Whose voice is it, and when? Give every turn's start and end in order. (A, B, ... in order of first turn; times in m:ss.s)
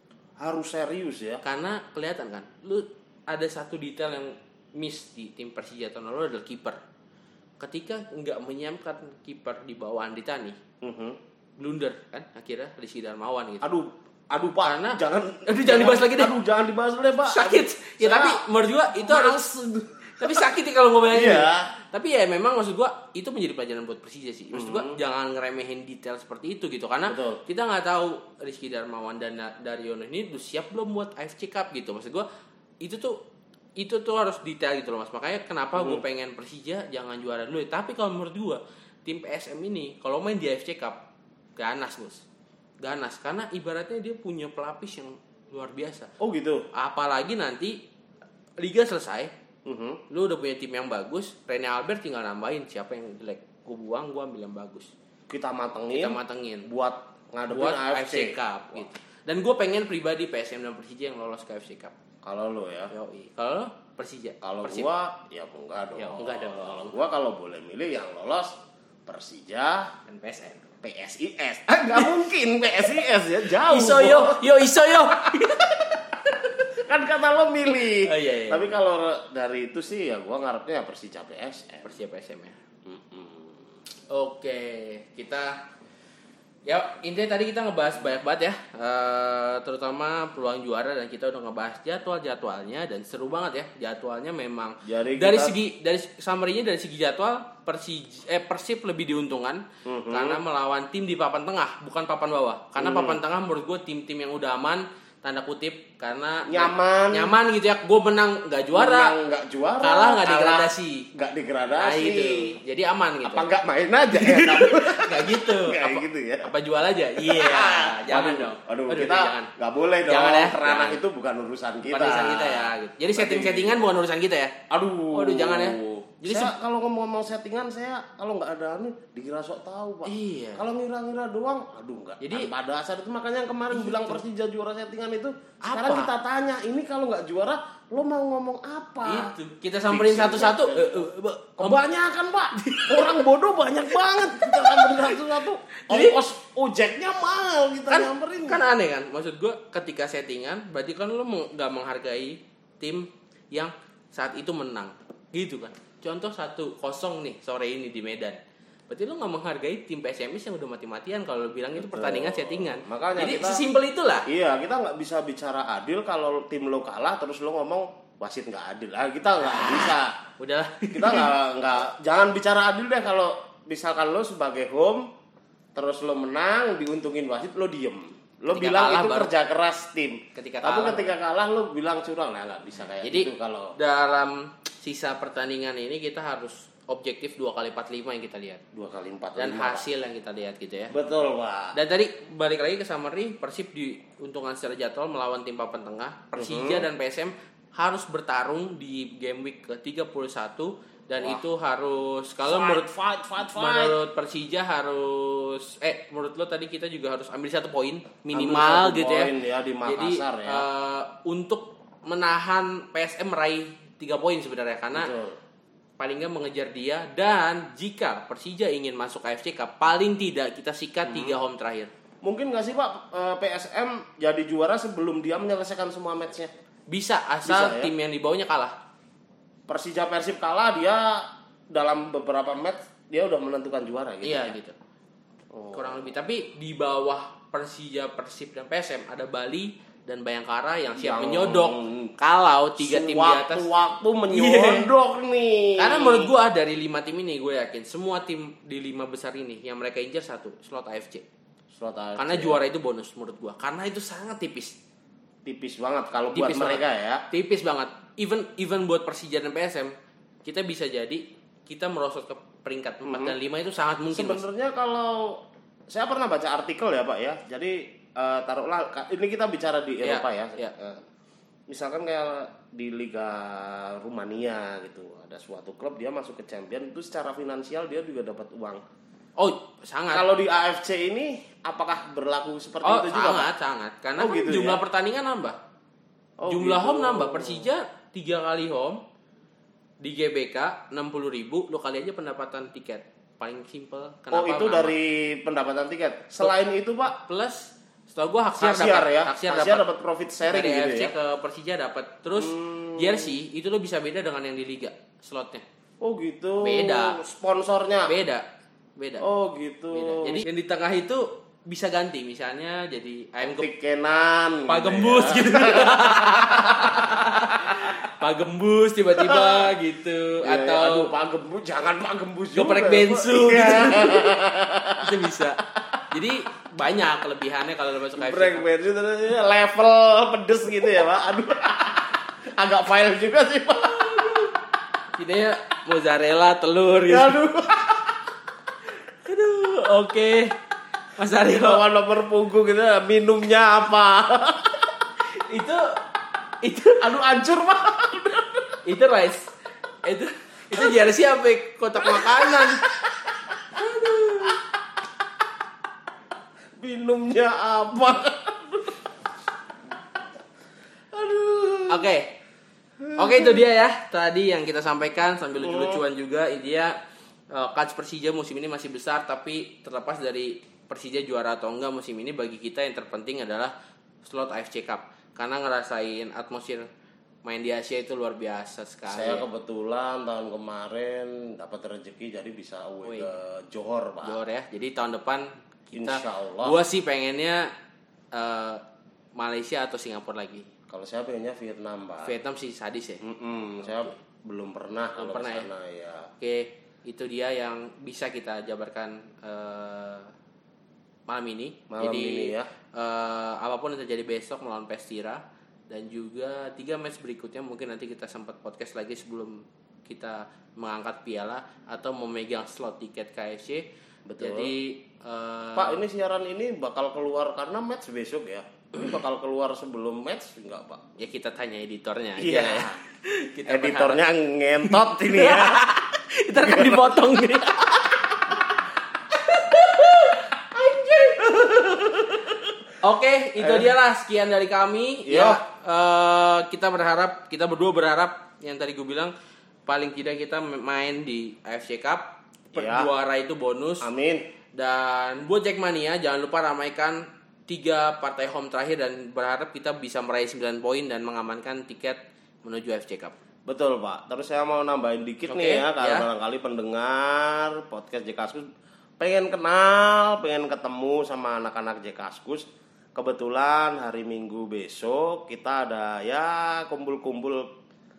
0:00.4-0:01.4 A
0:01.4-0:06.8 B
0:07.6-0:10.6 B
0:10.8-0:11.2 A
0:11.6-0:13.7 B
0:13.6-0:18.4 A
0:14.6-0:16.4 B
0:17.2-0:19.4 B
0:19.0-0:20.5 A
0:20.2-0:32.3 B
0:21.1-0:21.7 A
0:24.5-0:25.0 A
0:27.1-0:27.4 A
0:32.8-0:33.2 B
0:33.8-0:41.0 B
0:35.8-0:36.0 A
0:41.6-0:42.2 B
0:42.8-0:46.1 B
0:46.2-0:46.7 A
0:46.7-0:47.8 B
0:48.6-0:49.3 B
0:49.6-0:50.0 A
0:50.1-0:54.9 B
0:55.3-0:58.8 A
0:55.9-0:56.7 B
0:57.5-1:01.9 B
1:02.2-1:02.9 A
1:02.9-1:04.9 B
1:04.4-1:09.9 A
1:06.0-1:06.9 B
1:10.1-1:10.7 B
1:10.8-1:14.6 A
1:13.6-1:16.5 B
1:16.7-1:21.9 A
1:18.0-1:18.8 B
1:21.8-1:22.6 B
1:22.9-1:23.6 A
1:24.1-1:25.6 B
1:26.7-1:49.2 B
1:34.8-1:35.6 A
1:39.8-1:40.4 A
1:42.8-1:43.2 A
1:46.5-1:47.4 A
1:48.8-1:52.5 A
1:49.8-1:51.1 B
1:51.8-1:53.5 B
1:53.3-1:56.5 A
1:54.1-1:59.5 B
1:57.2-2:03.8 A
2:00.0-2:01.0 B
2:01.9-2:04.6 B
2:04.7-2:19.3 A
2:05.1-2:06.5 B
2:10.1-2:10.6 B
2:12.2-2:12.5 B
2:13.7-2:14.2 B
2:15.6-2:16.1 B
2:19.1-2:21.8 B
2:19.9-2:28.6 A
2:22.5-2:23.2 B
2:24.4-2:25.2 B
2:25.8-2:26.2 B
2:27.9-2:44.3 B
2:41.8-2:43.6 A
2:44.3-2:50.2 A
2:50.4-2:51.3 B
2:50.9-2:55.1 A
2:55.8-3:03.8 A
2:58.5-2:59.3 B
3:00.4-3:01.1 B
3:03.0-3:08.6 B
3:08.7-3:09.8 A
3:09.4-3:11.0 B
3:10.9-3:11.8 A
3:11.7-3:22.9 B
3:16.3-3:16.9 A
3:22.4-3:24.0 A
3:23.4-3:29.3 B
3:28.3-3:30.7 A
3:29.8-3:35.1 B
3:34.9-3:35.4 A
3:36.0-3:41.9 B
3:41.0-3:41.4 A
3:42.2-3:46.5 A
3:46.9-3:48.8 B
3:47.4-3:47.9 A
3:49.7-3:54.6 A
3:54.2-3:54.8 B
3:55.5-3:56.1 A
3:55.7-4:03.7 B
4:01.0-4:02.1 A
4:02.8-4:06.3 A
4:04.3-4:04.9 B
4:05.8-4:11.2 B
4:11.7-4:12.6 A
4:12.2-4:14.8 B
4:15.4-4:17.2 A
4:16.3-4:19.9 B
4:20.4-4:24.4 B
4:23.0-4:23.4 A
4:24.1-4:31.0 A
4:30.0-4:30.7 B
4:31.7-4:38.8 A
4:39.4-4:40.3 B
4:40.1-4:43.5 A
4:42.8-4:45.6 B
4:44.2-4:44.8 A
4:46.4-4:47.7 A
4:46.5-4:49.0 B
4:50.0-4:55.0 B
4:54.3-4:57.2 A
4:57.2-4:59.8 B
4:58.6-5:01.1 A
5:00.5-5:05.6 B
5:02.3-5:03.4 A
5:06.0-5:08.1 A
5:06.6-5:07.2 B
5:08.1-5:08.4 B
5:09.0-5:09.3 B
5:09.2-5:10.4 A
5:09.9-5:13.7 B
5:13.4-5:18.0 A
5:14.7-5:21.1 B
5:19.2-5:19.8 A
5:20.4-5:25.2 A
5:22.5-5:24.4 B
5:25.0-5:28.7 B
5:28.1-5:34.3 A
5:33.9-5:34.5 B
5:35.2-5:37.4 B
5:37.1-5:38.2 A
5:39.2-5:40.6 B
5:41.2-5:41.8 B
5:41.4-5:44.9 A
5:45.3-5:46.0 B
5:46.6-5:47.1 B
5:47.0-5:48.8 A
5:48.8-5:49.5 B
5:50.0-5:52.8 B
5:52.0-5:53.8 A
5:53.7-5:54.6 B
5:56.8-5:59.0 A
6:01.1-6:02.1 A
6:01.9-6:02.3 B
6:03.0-6:03.6 A
6:03.2-6:07.0 B
6:05.6-6:06.0 A
6:07.5-6:16.9 B
6:17.4-6:19.4 B
6:19.1-6:24.4 A
6:23.0-6:23.3 B
6:24.2-6:27.7 B
6:25.9-6:26.8 A
6:28.3-6:28.8 B
6:29.4-6:30.7 B
6:30.9-6:32.3 A
6:32.2-6:33.2 B
6:33.2-6:36.3 A
6:33.9-6:34.1 B
6:35.2-6:35.7 B
6:36.4-6:40.3 B
6:41.3-6:53.8 B
6:41.9-6:42.7 A
6:54.3-6:54.7 A
6:54.4-6:56.0 B
6:55.8-7:01.0 A
7:01.2-7:04.2 B
7:02.4-7:03.0 A
7:03.7-7:05.9 A
7:04.8-7:08.6 B
7:06.6-7:07.2 A
7:09.3-7:12.2 B
7:11.6-7:12.5 A
7:13.0-7:19.3 B
7:13.6-7:13.9 A
7:15.3-7:15.6 A
7:19.9-7:24.1 B
7:22.7-7:23.1 A
7:24.0-7:24.5 A
7:24.8-7:33.4 B
7:33.7-7:38.7 A
7:35.4-7:36.3 B
7:39.2-7:47.7 A